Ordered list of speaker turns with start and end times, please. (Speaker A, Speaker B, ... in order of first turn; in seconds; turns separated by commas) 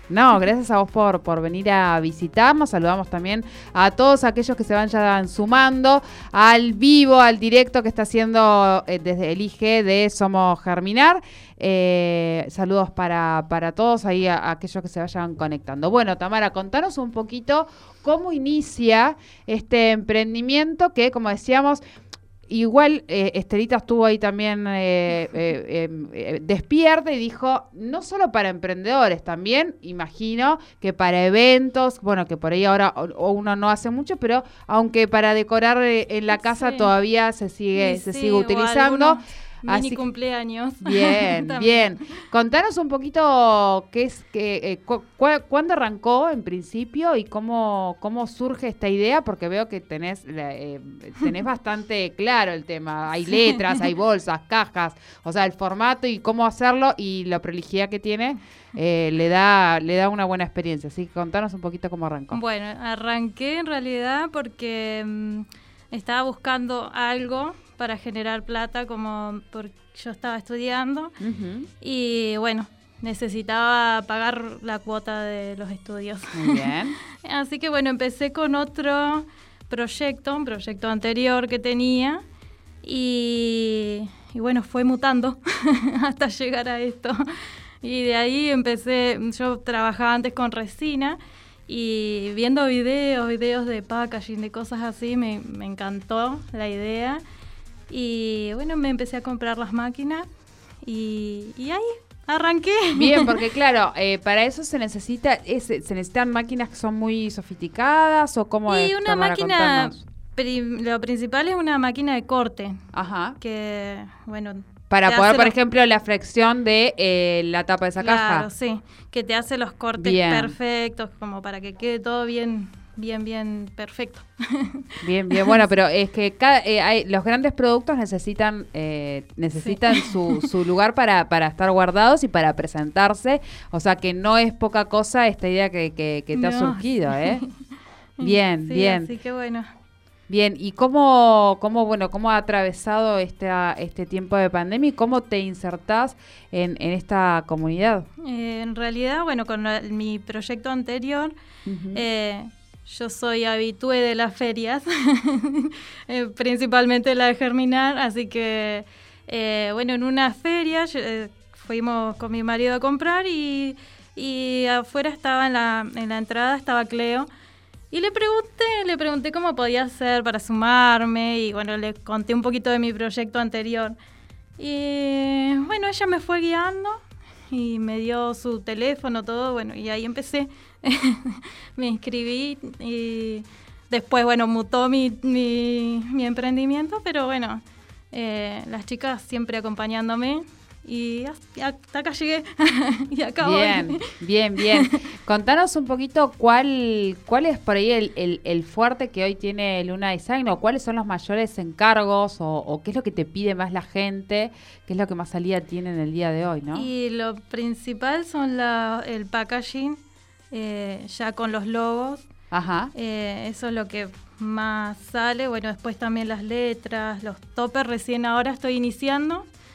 Speaker A: 0.1-21.8, Speaker A: 22.5-40.0, Speaker B: 36.3-36.9, Speaker B: 37.7-42.2, Speaker A: 40.8-62.4, Speaker B: 53.3-53.8, Speaker B: 62.3-71.2, Speaker A: 71.2-71.7, Speaker B: 71.8-82.2, Speaker A: 76.3-77.0, Speaker B: 82.8-97.2, Speaker B: 97.9-100.2, Speaker B: 100.8-103.4, Speaker A: 102.9-110.0, Speaker B: 108.7-112.8, Speaker A: 112.9-113.4, Speaker B: 113.4-115.5, Speaker A: 114.9-118.5, Speaker B: 118.0-125.6, Speaker A: 120.0-120.5, Speaker A: 125.0-137.4, Speaker B: 129.5-130.5, Speaker B: 136.3-137.5, Speaker B: 138.2-139.7, Speaker A: 138.2-139.1, Speaker A: 140.3-148.1, Speaker B: 148.2-151.3, Speaker A: 151.6-152.0, Speaker B: 151.9-167.3, Speaker B: 167.9-173.9, Speaker B: 174.6-177.0, Speaker B: 177.5-194.0, Speaker A: 193.4-206.9, Speaker B: 194.6-195.0, Speaker B: 206.7-210.0, Speaker B: 210.5-212.3, Speaker A: 212.5-212.9, Speaker B: 212.9-219.4